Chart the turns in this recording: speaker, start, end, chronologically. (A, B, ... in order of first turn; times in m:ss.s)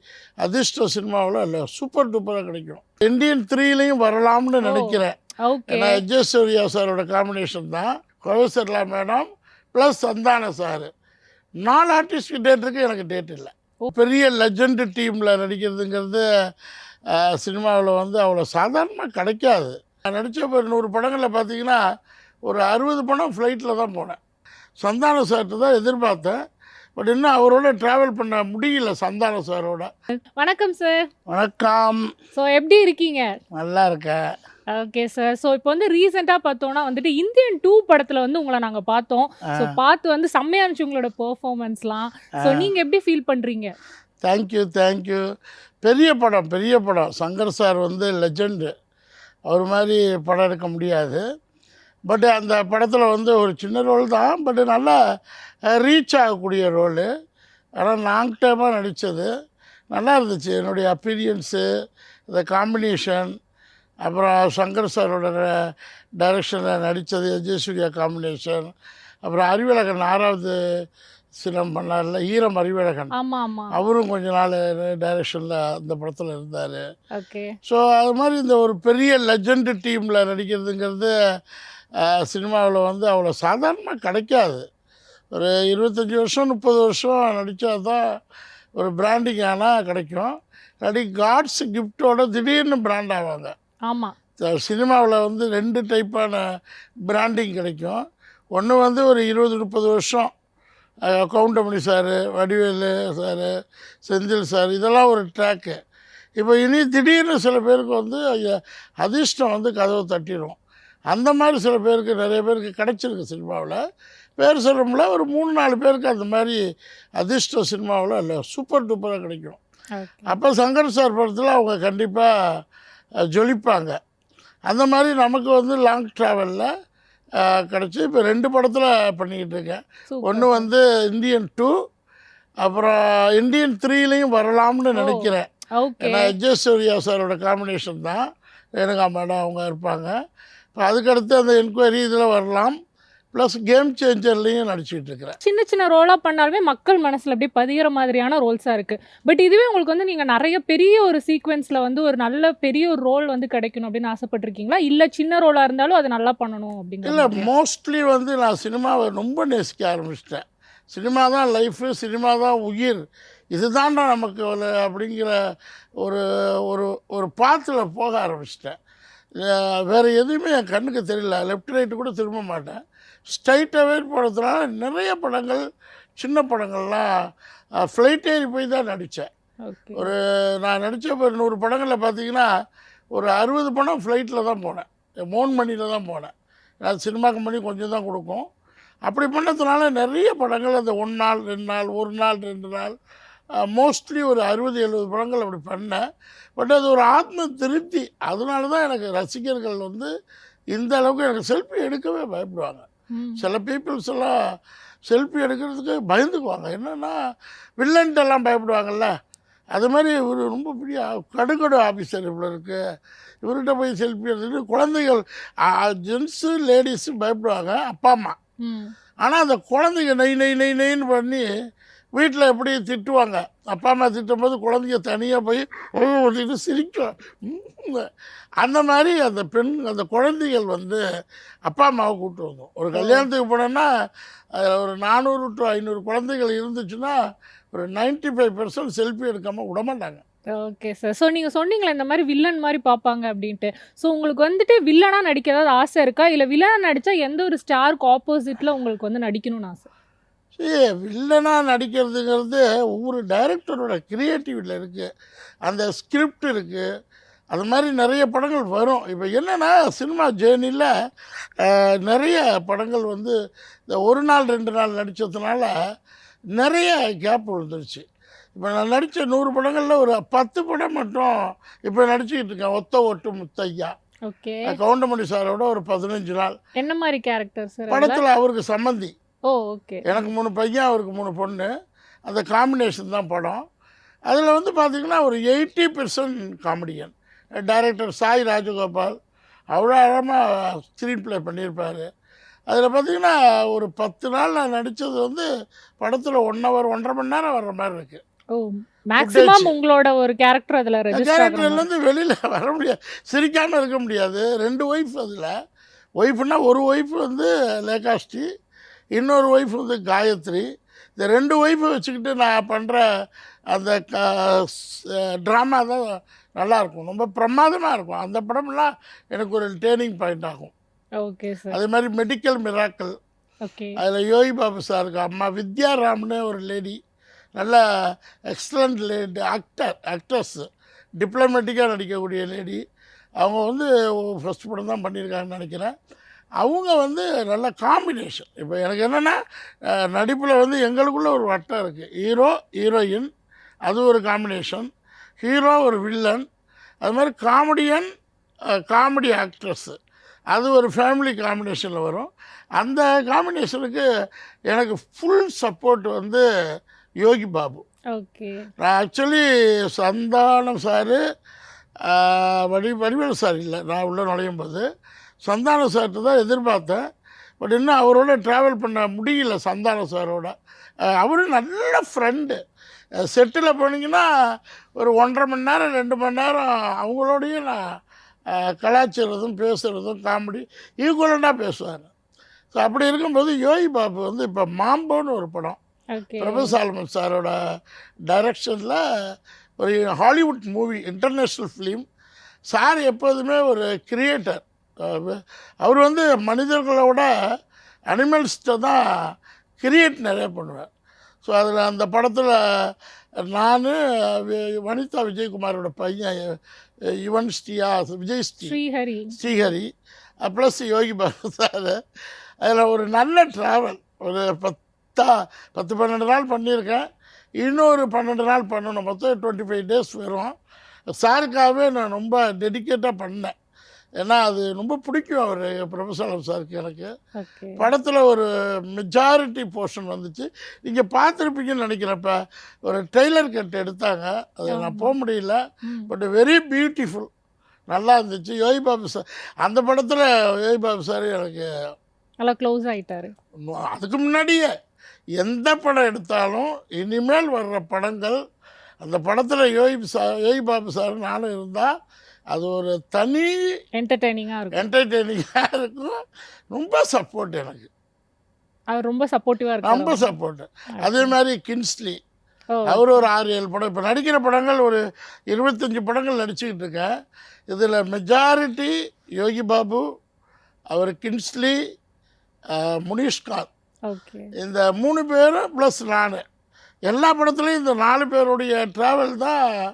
0:00.4-0:05.1 A
0:04.6-0:06.0 B
0:05.7-0:10.9 A
0:11.6-0:16.2 A
0:17.2-0:21.8 A
0:22.5-0:24.2 A
0:24.8-0:26.4 A
0:27.0-0:29.9 A
0:30.4-0:31.0 B
0:31.3-0:32.1 A
0:32.3-0:33.3 B
0:33.6-0:34.2 A
0:34.7-0:43.7 B
0:42.4-0:42.7 A
0:44.2-0:45.2 A
0:45.8-0:48.7 A
0:49.5-0:51.2 A
0:52.1-0:55.0 A
0:55.7-0:57.1 A
0:57.8-0:59.3 A
0:59.9-1:01.6 A
1:02.3-1:03.3 A
1:04.0-1:05.5 A
1:06.2-1:08.7 A
1:09.2-1:10.5 A
1:11.4-1:13.1 A
1:13.1-1:13.7 B
1:13.7-1:16.8 A
1:17.1-1:17.5 B
1:17.6-1:21.1 A
1:22.0-1:24.6 A
1:25.4-1:28.0 A
1:28.8-1:30.3 A
1:30.8-1:33.5 A
1:33.9-1:34.1 B
1:34.4-1:36.4 A
1:37.1-1:38.0 A
1:38.6-1:40.3 A
1:41.1-1:43.5 A
1:44.1-1:45.8 A
1:46.4-1:50.6 A
1:51.1-1:53.8 A
1:54.4-1:56.6 A
1:57.2-1:59.6 A
2:00.0-2:00.3 B
2:00.3-2:02.3 A
2:03.3-2:03.9 A
2:04.7-2:06.7 A
2:07.4-2:11.7 A
2:10.1-2:10.7 B
2:12.6-2:15.4 A
2:15.0-2:16.3 B
2:16.0-2:18.2 A
2:18.8-2:20.1 A
2:20.8-2:22.7 A
2:23.3-2:25.4 A
2:25.4-2:37.5 B
2:37.0-2:43.0 A
2:43.5-2:45.3 A
2:46.0-2:48.7 A
2:49.4-2:55.6 A
2:56.2-2:57.1 A
2:57.8-2:59.3 A
2:59.6-3:00.1 B
3:00.0-3:02.5 A
3:03.1-3:06.3 A
3:06.8-3:08.4 A
3:09.1-3:12.9 A
3:13.7-3:16.0 A
3:16.6-3:20.1 A
3:20.7-3:22.8 A
3:23.1-3:23.4 B
3:23.4-3:24.3 A
3:25.1-3:27.2 A
3:27.8-3:29.1 A
3:29.7-3:32.8 A
3:33.4-3:38.4 A
3:38.6-3:38.9 B
3:39.2-3:41.4 A
3:42.2-3:48.1 A
3:48.6-3:51.0 A
3:51.7-3:53.9 A
3:52.9-3:53.2 B
3:54.6-3:57.1 A
3:57.7-4:00.2 A
4:00.6-4:09.9 B
4:10.6-4:15.0 A
4:15.7-4:16.8 A
4:17.5-4:20.9 A
4:21.6-4:23.3 A
4:23.9-4:25.7 A
4:26.6-4:28.0 A
4:28.6-4:31.3 A
4:31.9-4:33.9 A
4:34.3-4:34.7 B
4:34.7-4:36.5 A
4:36.8-4:38.2 B
4:37.9-4:39.1 A
4:39.5-4:40.2 B
4:40.0-4:41.7 A
4:42.3-4:43.6 A
4:44.3-4:47.1 A
4:47.6-4:49.1 A
4:49.7-4:52.0 A
4:52.7-4:55.4 A
4:56.0-4:58.2 A
4:58.5-5:01.8 B
4:59.2-4:59.7 A
5:01.1-5:05.5 A
5:06.2-5:08.4 A
5:09.2-5:10.6 A
5:11.2-5:13.0 A
5:13.7-5:14.7 A
5:15.4-5:16.0 A
5:16.6-5:20.7 A
5:21.2-5:21.8 B
5:21.7-5:23.1 A
5:23.6-5:24.0 B
5:24.0-5:27.0 A
5:28.5-5:30.6 A
5:31.2-5:32.8 A
5:33.4-5:35.9 A
5:36.6-5:39.4 A
5:40.1-5:43.3 A
5:43.9-5:44.9 A
5:45.4-5:46.4 A
5:47.0-5:48.1 A
5:48.9-5:50.0 A
5:50.5-5:52.3 A
5:52.8-5:54.0 A
5:54.7-5:56.4 A
5:57.2-5:57.8 A
5:58.1-5:58.6 B
5:58.8-6:01.2 A
6:02.1-6:04.8 A
6:05.4-6:07.0 A
6:07.6-6:10.5 A
6:11.2-6:12.6 A
6:13.2-6:14.2 A
6:15.0-6:17.8 A
6:18.7-6:22.1 A
6:22.7-6:25.8 A
6:26.1-6:26.8 B
6:26.4-6:27.6 A
6:28.3-6:29.0 A
6:29.8-6:32.0 A
6:32.7-6:37.3 A
6:38.1-6:39.0 A
6:39.8-6:40.9 A
6:41.4-6:42.6 A
6:43.5-6:46.4 A
6:47.2-6:48.7 A
6:48.6-6:49.4 B
6:49.3-6:49.9 A
6:50.4-6:52.0 A
6:52.6-6:57.0 A
6:57.6-7:00.5 A
7:01.2-7:03.5 A
7:04.2-7:07.1 A
7:07.4-7:07.8 B
7:07.8-7:08.4 A
7:09.0-7:12.3 A
7:12.9-7:15.6 A
7:14.7-7:15.1 B
7:15.8-7:16.1 B
7:16.1-7:17.3 A
7:17.9-7:21.6 A
7:22.4-7:23.3 B
7:23.6-7:24.7 A
7:25.4-7:28.4 A
7:29.0-7:31.9 A
7:32.5-7:33.5 A
7:34.0-7:34.8 B
7:34.7-7:36.1 A
7:36.7-7:37.9 A
7:38.9-7:40.3 B
7:39.8-7:42.2 A
7:41.0-7:41.3 B
7:42.7-7:43.2 B
7:42.9-7:45.0 A
7:45.5-7:47.1 A
7:47.7-7:50.0 A
7:50.9-7:51.8 A
7:52.8-7:53.7 A
7:54.1-7:54.5 B
7:54.6-7:56.4 A
7:57.1-7:59.6 A